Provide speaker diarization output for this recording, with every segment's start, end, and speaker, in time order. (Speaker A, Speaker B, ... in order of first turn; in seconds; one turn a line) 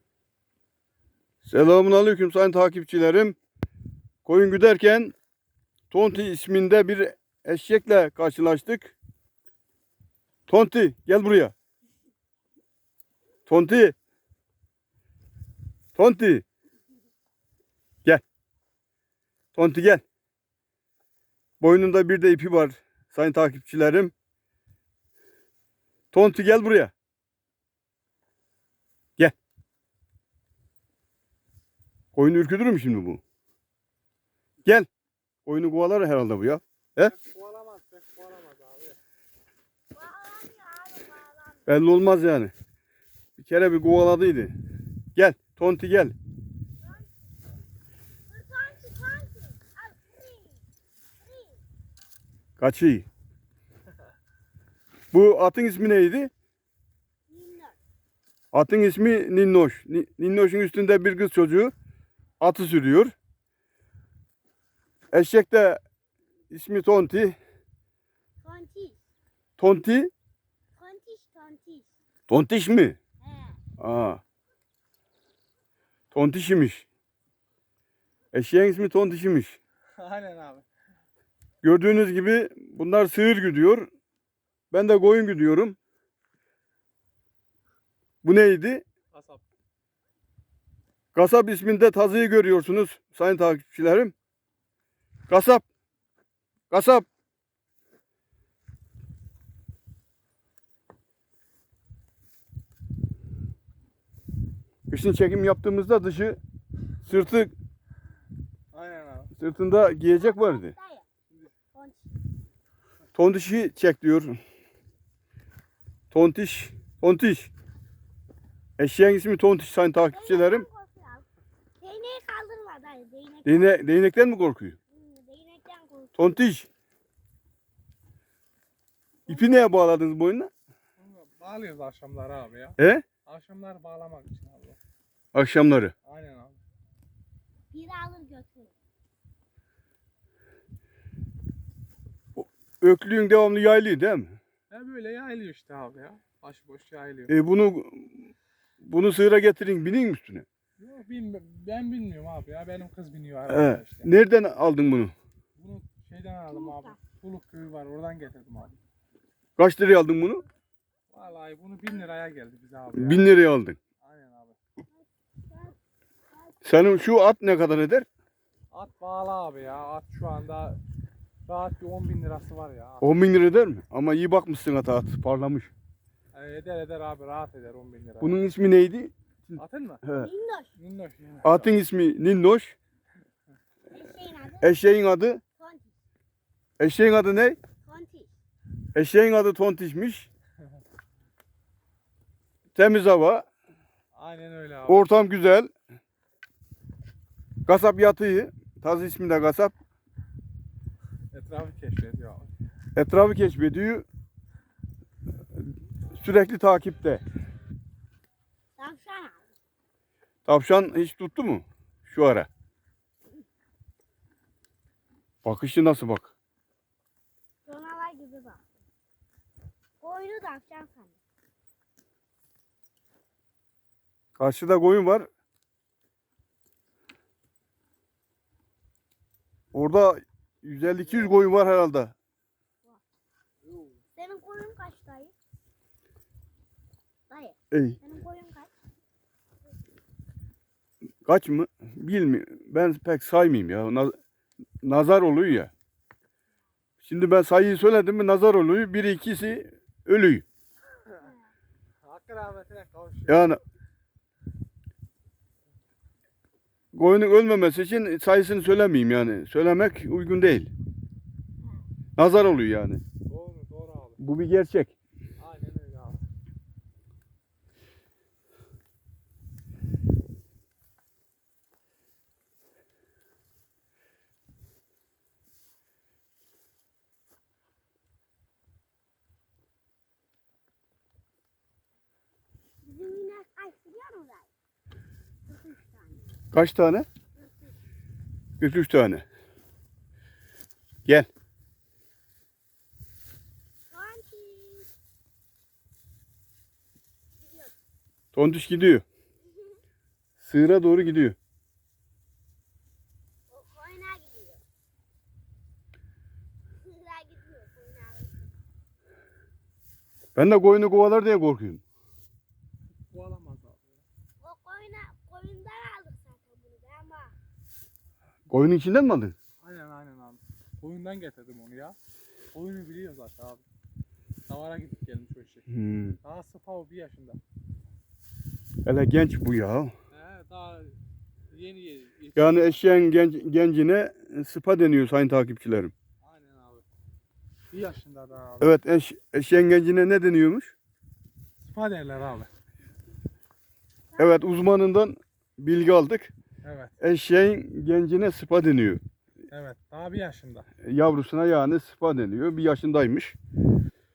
Speaker A: 1.4-3.4
Speaker A: 4.2-5.1
Speaker A: 5.9-8.9
Speaker A: 10.5-11.5
Speaker A: 13.5-13.9
Speaker A: 15.9-16.4
Speaker A: 19.5-20.0
Speaker A: 21.6-24.1
Speaker A: 26.1-26.9
Speaker A: 32.1-33.2
Speaker A: 35.5-37.1
Speaker B: 37.0-39.0
Speaker C: 39.9-41.6
Speaker A: 41.7-42.5
Speaker A: 43.4-44.5
Speaker A: 45.1-46.1
Speaker C: 46.8-47.1
Speaker C: 48.3-50.6
Speaker C: 51.2-51.6
Speaker A: 52.6-53.1
Speaker A: 55.1-56.3
Speaker C: 57.3-57.8
Speaker A: 58.5-61.7
Speaker A: 62.4-63.1
Speaker A: 65.1-65.8
Speaker A: 66.5-67.4
Speaker C: 68.4-69.0
Speaker A: 69.6-70.1
Speaker C: 70.8-71.9
Speaker A: 72.3-73.0
Speaker C: 73.2-73.6
Speaker A: 73.8-74.2
Speaker A: 76.1-76.9
Speaker A: 78.3-79.6
Speaker B: 80.0-80.7
Speaker A: 81.6-83.9
Speaker A: 84.7-85.8
Speaker A: 88.2-88.8
Speaker B: 89.1-89.4
Speaker A: 91.2-94.1
Speaker A: 95.3-95.6
Speaker A: 96.7-97.1
Speaker A: 104.9-106.4
Speaker A: 107.1-107.5
Speaker B: 108.7-109.3
Speaker A: 109.4-110.7
Speaker C: 110.1-111.1
Speaker C: 111.7-112.2
Speaker A: 113.2-114.4
Speaker A: 116.1-117.5
Speaker A: 118.8-120.7
Speaker C: 120.1-121.3
Speaker C: 121.8-123.8
Speaker A: 123.5-124.8
Speaker C: 124.9-126.4
Speaker A: 126.2-126.7
Speaker C: 129.3-129.5
Speaker A: 129.3-130.5
Speaker B: 131.0-134.8
Speaker A: 132.8-133.1
Speaker A: 135.3-135.9
Speaker B: 136.1-136.6
Speaker C: 137.7-138.7
Speaker A: 142.3-144.4
Speaker B: 144.7-147.3
Speaker A: 147.3-148.3
Speaker A: 148.8-150.5
Speaker B: 150.8-154.1
Speaker A: 153.5-155.1
Speaker B: 155.6-158.8
Speaker C: 156.5-157.0
Speaker A: 159.6-160.4
Speaker B: 161.1-163.3
Speaker A: 162.9-163.8
Speaker B: 164.0-164.6
Speaker C: 165.0-165.8
Speaker A: 166.6-168.1
Speaker B: 168.7-170.8
Speaker B: 171.5-173.1
Speaker A: 173.0-175.7
Speaker B: 176.3-178.4
Speaker A: 178.2-180.3
Speaker B: 179.6-180.0
Speaker C: 180.2-180.7
Speaker B: 180.8-181.7
Speaker A: 181.4-182.8
Speaker C: 183.9-184.7
Speaker A: 184.6-185.4
Speaker C: 185.6-186.0
Speaker A: 186.8-187.6
Speaker C: 187.8-188.3
Speaker A: 188.9-190.3
Speaker A: 192.8-193.5
Speaker B: 194.2-195.1
Speaker A: 194.9-195.7
Speaker A: 197.7-199.7
Speaker B: 201.3-202.5
Speaker A: 202.9-204.1
Speaker A: 206.1-207.2
Speaker C: 208.8-209.5
Speaker A: 210.5-212.5
Speaker A: 215.4-216.3
Speaker C: 217.7-218.6
Speaker C: 220.0-221.2
Speaker A: 224.4-225.3
Speaker A: 229.7-232.1
Speaker C: 234.2-235.3
Speaker C: 237.3-238.7
Speaker A: 237.7-238.0
Speaker A: 241.2-244.2
Speaker A: 244.8-245.7
Speaker A: 247.0-250.4
Speaker C: 251.2-251.5
Speaker B: 252.0-253.5
Speaker A: 253.3-253.6
Speaker A: 256.9-260.7
Speaker A: 262.2-263.0
Speaker B: 263.2-264.2
Speaker A: 264.2-264.9
Speaker B: 265.4-266.2
Speaker C: 282.8-284.5
Speaker C: 285.5-286.2
Speaker A: 286.5-287.1
Speaker C: 287.4-287.7
Speaker A: 288.6-289.2
Speaker C: 293.9-294.9
Speaker C: 297.4-297.7
Speaker A: 298.3-299.0
Speaker C: 299.4-299.8
Speaker A: 300.4-301.4
Speaker C: 303.5-304.6
Speaker C: 306.8-308.5
Speaker A: 310.3-311.8
Speaker B: 313.1-314.0
Speaker C: 314.4-317.3
Speaker A: 318.5-319.3
Speaker B: 319.6-322.0
Speaker B: 322.5-323.6
Speaker B: 324.5-325.6
Speaker A: 325.7-326.2
Speaker B: 326.2-327.4
Speaker A: 328.8-329.9
Speaker B: 330.1-330.9
Speaker B: 331.5-332.8
Speaker A: 332.4-335.9
Speaker B: 336.2-336.9
Speaker B: 337.7-338.8
Speaker A: 338.6-340.7
Speaker B: 341.6-342.5
Speaker C: 344.1-344.5
Speaker A: 344.2-346.3
Speaker B: 346.6-346.9
Speaker A: 347.0-349.0
Speaker B: 349.5-350.7
Speaker A: 350.8-353.4